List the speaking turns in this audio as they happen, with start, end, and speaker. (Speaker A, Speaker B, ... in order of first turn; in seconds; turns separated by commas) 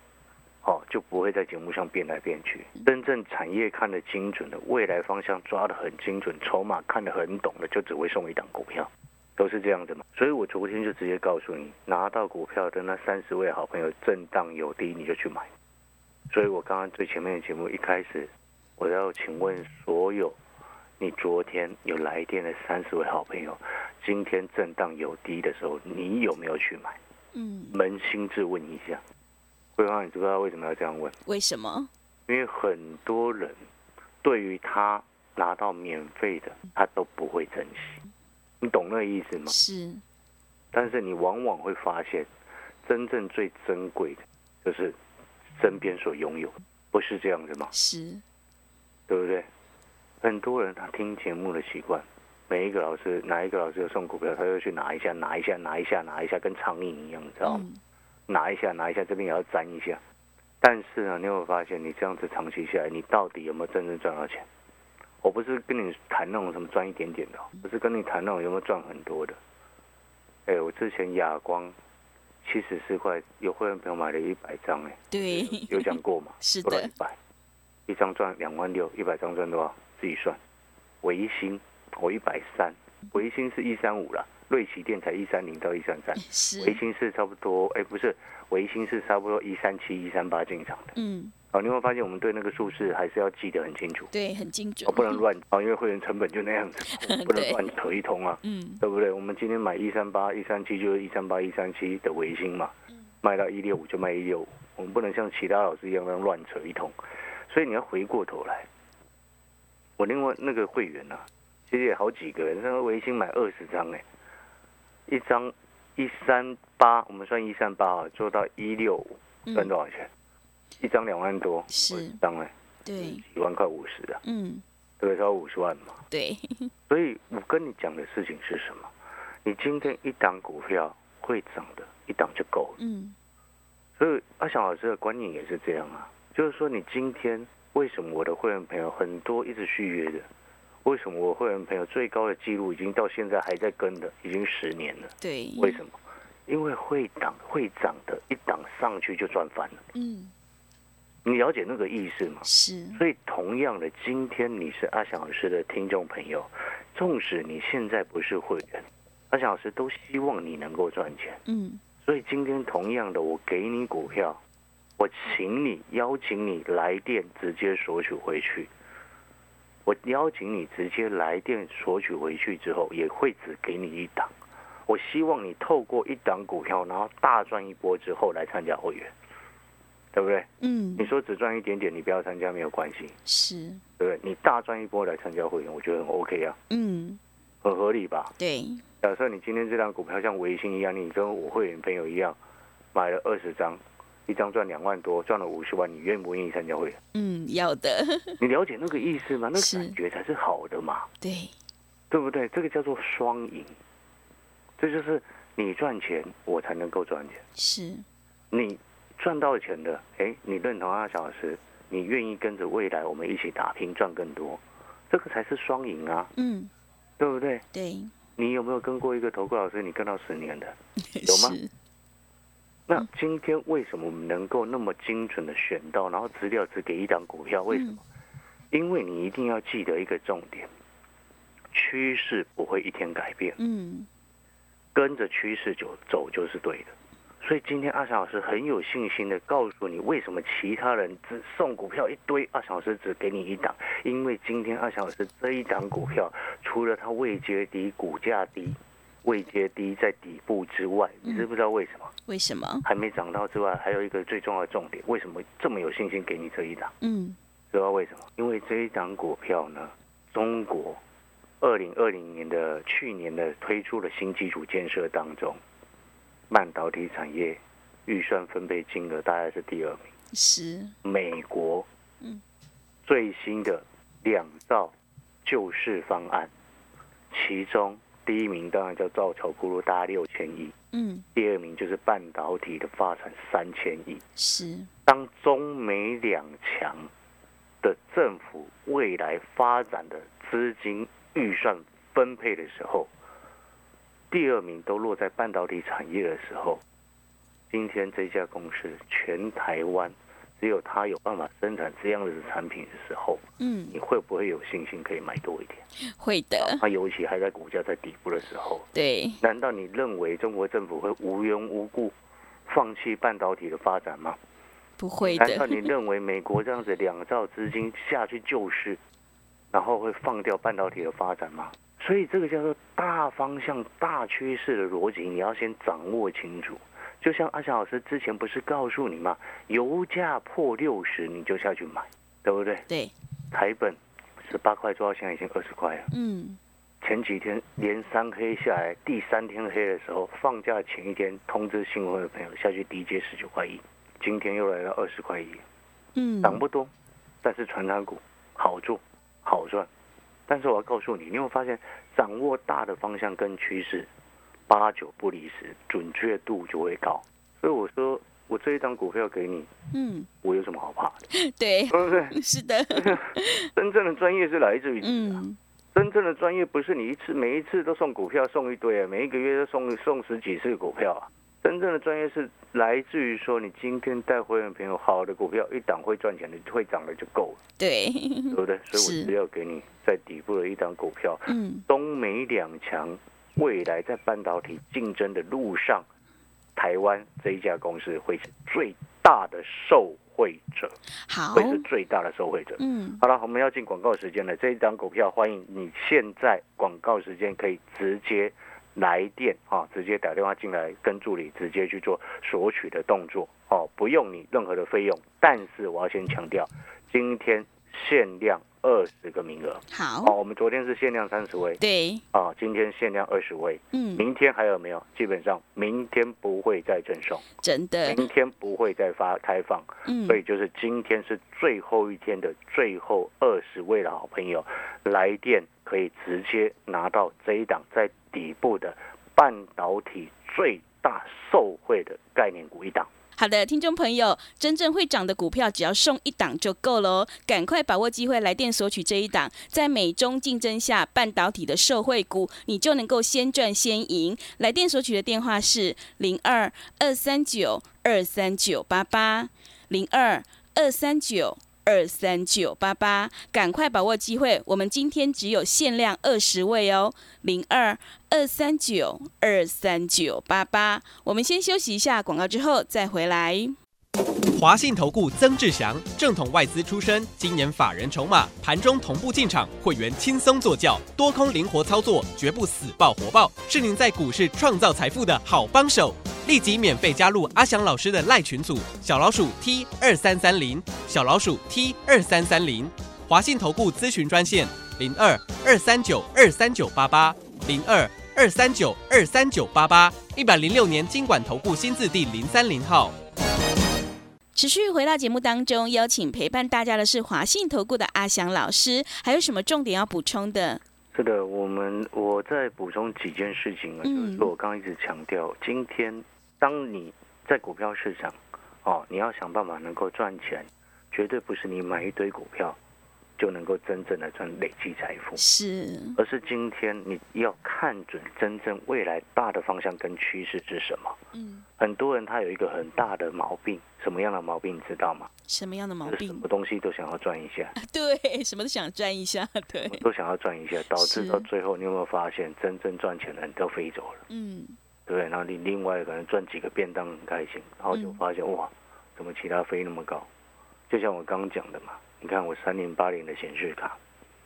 Speaker A: 0.6-15.5, Speaker A: 16.3-20.4, Speaker A: 21.0-27.0, Speaker B: 27.3-27.8, Speaker A: 27.7-29.0, Speaker A: 29.8-31.1, Speaker B: 31.2-31.9, Speaker A: 32.3-33.6, Speaker A: 34.2-38.0, Speaker A: 38.6-39.5, Speaker B: 39.5-40.0, Speaker A: 40.7-42.3, Speaker A: 42.8-45.0, Speaker A: 45.5-47.7, Speaker B: 47.7-48.2, Speaker A: 49.1-49.5, Speaker A: 50.2-57.6, Speaker B: 57.4-57.8, Speaker A: 58.3-60.0, Speaker A: 60.6-64.5, Speaker A: 65.2-69.4, Speaker A: 70.5-71.7, Speaker A: 72.4-77.2, Speaker B: 75.1-76.9, Speaker A: 77.9-80.4, Speaker A: 81.0-90.9, Speaker B: 86.2-86.8, Speaker B: 90.9-91.3, Speaker A: 91.5-94.1, Speaker B: 94.1-95.2, Speaker A: 94.8-106.9, Speaker B: 96.9-97.7, Speaker B: 98.4-98.8, Speaker A: 107.5-108.7, Speaker A: 110.0-114.0, Speaker A: 115.1-120.1, Speaker B: 119.5-119.7, Speaker A: 120.8-124.2, Speaker B: 121.7-122.2, Speaker B: 122.8-123.2, Speaker B: 124.2-124.6, Speaker A: 125.0-126.0, Speaker B: 126.1-126.7, Speaker A: 126.9-128.9, Speaker A: 129.4-132.8, Speaker B: 132.8-133.2, Speaker A: 134.0-140.3, Speaker A: 140.8-145.9, Speaker B: 145.2-145.8, Speaker A: 146.5-149.8, Speaker B: 149.9-150.3, Speaker A: 151.2-161.4, Speaker B: 152.4-153.0, Speaker B: 161.4-161.8, Speaker A: 162.0-164.4, Speaker A: 165.0-168.7, Speaker A: 169.8-174.3, Speaker A: 174.9-179.1, Speaker A: 180.1-183.1, Speaker B: 180.6-181.1, Speaker B: 183.2-183.8, Speaker A: 184.0-186.6, Speaker B: 186.7-187.2, Speaker A: 187.6-188.3, Speaker B: 188.4-188.8, Speaker A: 189.0-192.4, Speaker A: 192.9-197.0, Speaker B: 197.1-198.4, Speaker A: 198.4-201.1, Speaker B: 199.5-200.0, Speaker B: 201.2-201.5, Speaker A: 202.1-203.7, Speaker A: 204.8-207.4, Speaker B: 207.6-208.0, Speaker A: 208.5-216.3, Speaker B: 216.3-216.7, Speaker A: 217.2-217.6, Speaker B: 217.7-218.1, Speaker A: 218.3-221.6, Speaker B: 221.0-221.7, Speaker A: 222.9-228.0, Speaker B: 227.7-228.0, Speaker A: 228.7-230.7, Speaker A: 231.7-233.6, Speaker B: 233.6-234.1, Speaker A: 234.9-252.1, Speaker B: 252.3-252.8, Speaker A: 252.8-256.9, Speaker B: 257.0-257.4, Speaker A: 257.7-261.0, Speaker A: 261.6-265.6, Speaker A: 266.5-270.1, Speaker B: 270.3-270.9, Speaker A: 271.0-271.9, Speaker A: 273.1-276.5, Speaker A: 277.3-280.7, Speaker B: 280.9-281.2, Speaker A: 281.3-284.2, Speaker B: 284.4-284.9, Speaker A: 285.1-287.1, Speaker A: 287.8-293.1, Speaker A: 294.3-296.8, Speaker A: 297.7-305.8, Speaker B: 303.6-303.9, Speaker B: 306.0-306.8, Speaker A: 306.6-308.9, Speaker B: 308.9-309.4, Speaker A: 309.4-312.1, Speaker A: 312.7-314.4, Speaker B: 315.0-315.9, Speaker A: 315.2-319.0, Speaker A: 319.7-332.8, Speaker B: 332.9-333.1, Speaker A: 333.5-336.1, Speaker B: 336.1-336.6, Speaker A: 337.0-345.6, Speaker B: 346.1-346.6, Speaker A: 346.4-346.9, Speaker A: 347.4-349.9, Speaker A: 350.5-354.1, Speaker A: 354.7-359.7, Speaker B: 359.9-360.3, Speaker A: 360.4-361.3, Speaker B: 361.3-363.7, Speaker A: 361.9-362.4, Speaker A: 362.9-365.4, Speaker B: 365.0-365.6, Speaker A: 365.9-377.6, Speaker B: 377.8-379.3, Speaker A: 378.5-386.1, Speaker B: 381.5-381.9, Speaker A: 386.8-390.9, Speaker B: 391.2-391.9, Speaker A: 391.5-411.8, Speaker B: 392.8-393.2, Speaker B: 409.9-410.3, Speaker B: 411.8-412.2, Speaker A: 412.3-417.4, Speaker B: 413.9-414.2, Speaker B: 417.6-418.2, Speaker A: 418.1-433.1, Speaker B: 420.0-420.4, Speaker B: 433.4-463.8, Speaker C: 464.5-493.1, Speaker B: 494.5-500.8, Speaker A: 501.1-512.8, Speaker B: 504.0-504.5, Speaker A: 513.4-515.4, Speaker B: 515.4-516.2, Speaker A: 516.1-521.2, Speaker B: 521.3-521.6, Speaker A: 521.8-525.3, Speaker B: 525.5-526.4, Speaker A: 526.0-527.7, Speaker B: 527.8-530.0, Speaker A: 529.8-534.2, Speaker B: 530.9-531.5, Speaker B: 534.3-534.8, Speaker A: 535.1-540.3, Speaker B: 537.9-538.2, Speaker A: 540.9-544.0